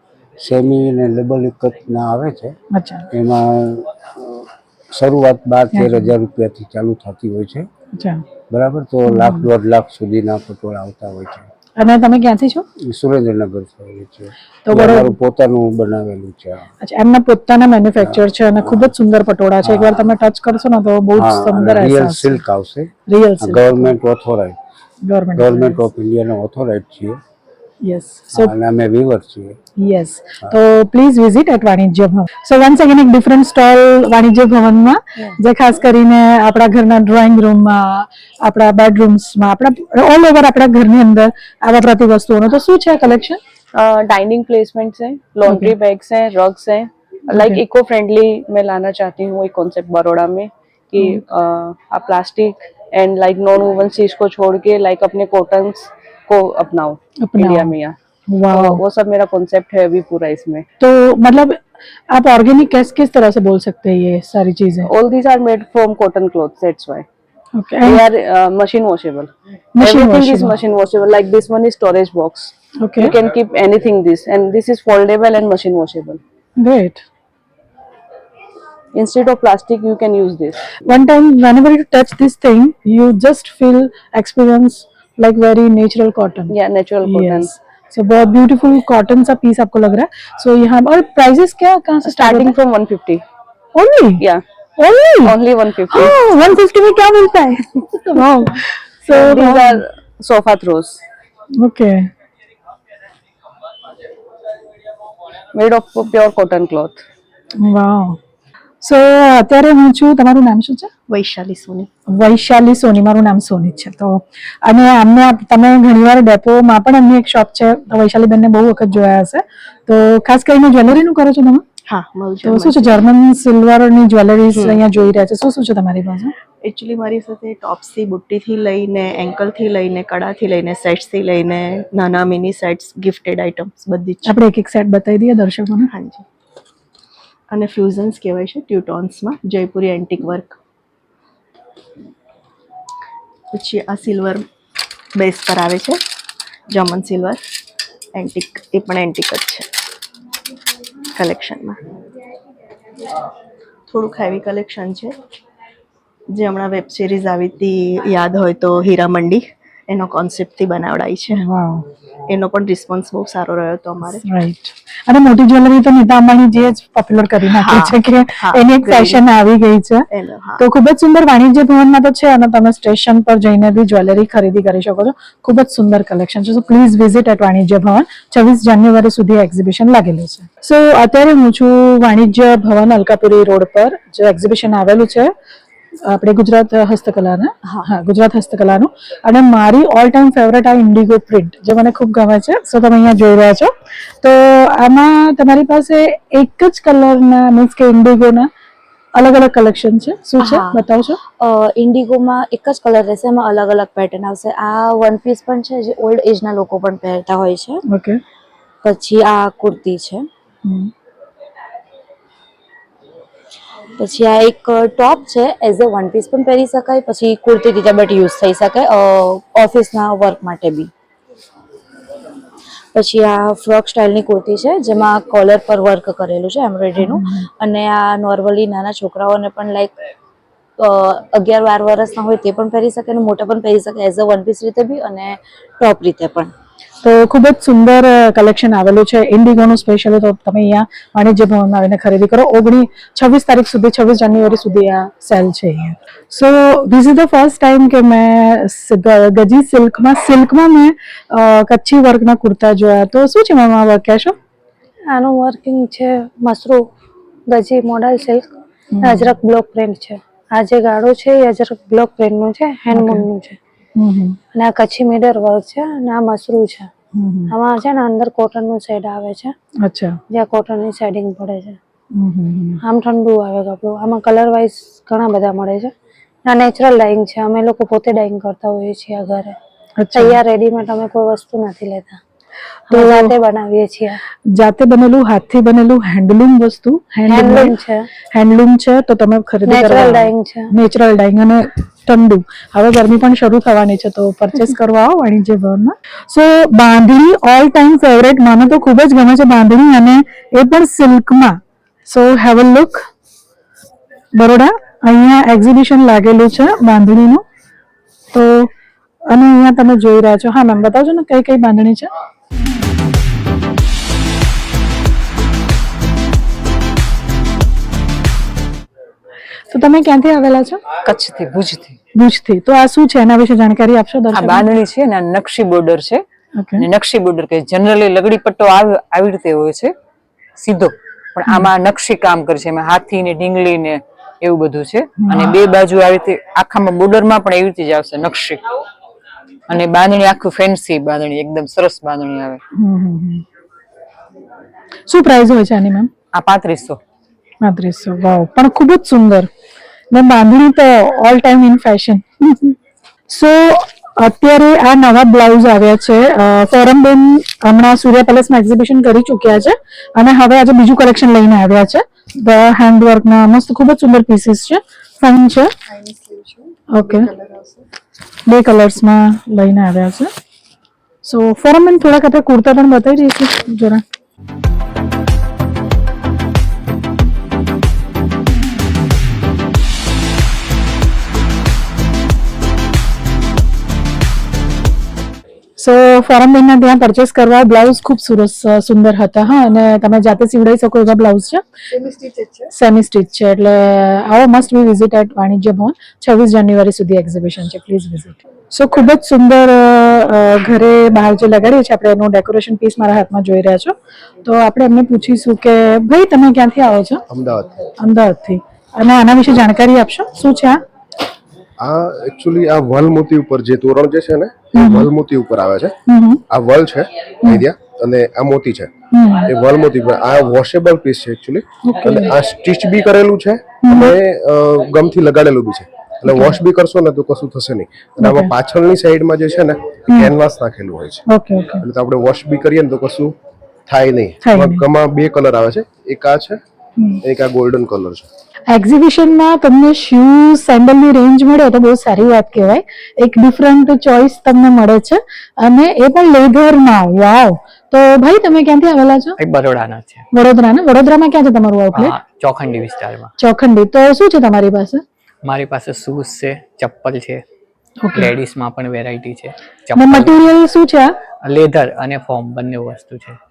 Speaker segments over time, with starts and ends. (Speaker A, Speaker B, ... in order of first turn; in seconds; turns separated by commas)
Speaker A: 0.4-2.6, Speaker B: 2.7-3.1, Speaker A: 3.1-7.7, Speaker B: 5.7-6.1, Speaker B: 8.0-8.2, Speaker A: 8.5-11.5, Speaker B: 9.1-9.5, Speaker B: 11.8-12.7, Speaker A: 12.8-16.6, Speaker B: 14.7-15.2, Speaker B: 16.8-22.4, Speaker A: 18.0-18.9, Speaker A: 19.6-20.1, Speaker A: 21.2-24.6, Speaker B: 23.1-23.9, Speaker B: 25.0-25.9, Speaker A: 25.4-27.2, Speaker B: 27.8-28.5, Speaker A: 28.4-29.6, Speaker B: 29.8-43.4, Speaker C: 43.8-58.0, Speaker B: 45.5-45.7, Speaker B: 47.4-47.6, Speaker B: 57.2-57.7, Speaker B: 58.3-58.8, Speaker C: 58.5-60.6, Speaker B: 60.8-61.6, Speaker B: 62.1-64.9, Speaker C: 64.9-67.1, Speaker B: 67.5-68.0, Speaker C: 67.8-76.2, Speaker B: 69.8-70.5, Speaker B: 72.8-73.2, Speaker B: 76.6-77.0, Speaker C: 79.0-80.6, Speaker B: 80.9-86.5, Speaker C: 86.5-87.5, Speaker B: 87.0-92.5, Speaker C: 92.0-93.2, Speaker B: 93.8-94.2, Speaker B: 94.8-95.3, Speaker C: 95.2-96.2, Speaker B: 95.9-99.8, Speaker C: 99.1-101.0, Speaker B: 101.6-102.1, Speaker C: 105.5-107.0, Speaker B: 107.6-108.2, Speaker B: 108.8-110.9, Speaker D: 111.1-111.9, Speaker B: 112.1-121.6, Speaker D: 121.9-123.0, Speaker B: 122.4-126.3, Speaker D: 124.5-124.8, Speaker D: 126.7-134.3, Speaker B: 134.3-135.9, Speaker D: 135.9-136.2, Speaker D: 137.5-140.6, Speaker D: 143.5-144.4, Speaker D: 145.2-146.0, Speaker D: 146.7-147.4, Speaker D: 148.2-149.7, Speaker D: 151.2-151.8, Speaker D: 153.9-155.2, Speaker D: 156.4-161.4, Speaker B: 161.4-161.8, Speaker D: 162.3-164.2, Speaker B: 164.2-170.1, Speaker D: 167.5-169.2, Speaker D: 170.1-170.6, Speaker B: 170.6-185.3, Speaker B: 186.1-193.7, Speaker B: 194.2-198.5, Speaker B: 199.2-201.2, Speaker E: 200.4-200.8, Speaker E: 201.4-207.8, Speaker B: 207.9-208.2, Speaker E: 208.8-210.2, Speaker B: 210.7-210.9, Speaker E: 214.0-220.9, Speaker E: 222.9-229.9, Speaker B: 227.0-227.5, Speaker E: 230.8-236.5, Speaker B: 237.0-254.3, Speaker F: 255.1-256.8, Speaker F: 257.6-258.4, Speaker B: 258.9-259.4, Speaker F: 259.1-263.5, Speaker B: 262.9-263.3, Speaker B: 264.0-264.4, Speaker F: 264.6-266.8, Speaker B: 267.1-267.5, Speaker F: 267.6-269.5, Speaker B: 269.8-270.2, Speaker F: 270.3-271.7, Speaker B: 272.1-272.8, Speaker F: 272.9-275.9, Speaker F: 276.5-279.5, Speaker B: 280.0-280.4, Speaker F: 280.1-282.1, Speaker B: 282.9-283.4, Speaker F: 282.9-284.1, Speaker B: 284.5-287.8, Speaker F: 287.3-287.9, Speaker B: 288.3-301.6, Speaker F: 289.7-290.6, Speaker B: 302.1-303.1, Speaker B: 304.4-307.4, Speaker B: 308.3-308.7, Speaker B: 309.3-312.1, Speaker B: 319.7-320.8, Speaker G: 321.0-322.0, Speaker B: 322.1-324.6, Speaker G: 324.3-326.2, Speaker B: 326.6-326.9, Speaker G: 326.8-329.9, Speaker G: 330.6-338.8, Speaker B: 335.2-335.6, Speaker G: 339.7-342.6, Speaker B: 342.8-343.4, Speaker B: 345.1-346.1, Speaker G: 346.3-347.0, Speaker B: 347.6-349.5, Speaker B: 350.1-352.8, Speaker B: 353.3-365.7, Speaker B: 366.9-367.3, Speaker B: 368.5-370.3, Speaker B: 371.2-374.0, Speaker B: 385.8-391.6, Speaker B: 392.7-407.2, Speaker H: 407.3-407.8, Speaker B: 408.0-410.8, Speaker H: 411.8-415.9, Speaker B: 414.8-415.1, Speaker B: 416.1-416.4, Speaker H: 416.5-418.9, Speaker B: 419.1-419.5, Speaker H: 419.5-431.2, Speaker B: 421.8-422.4, Speaker B: 423.8-424.2, Speaker B: 426.3-426.6, Speaker B: 428.2-428.5, Speaker B: 430.1-430.3, Speaker B: 431.3-431.8, Speaker H: 431.8-433.3, Speaker H: 433.9-436.6, Speaker B: 434.4-434.9, Speaker H: 437.2-438.3, Speaker B: 438.7-449.4, Speaker I: 449.4-450.3, Speaker B: 450.3-452.2, Speaker I: 451.9-453.3, Speaker B: 453.4-455.0, Speaker I: 455.4-457.4, Speaker B: 458.0-458.3, Speaker I: 458.1-460.5, Speaker B: 460.0-461.1, Speaker I: 461.4-463.4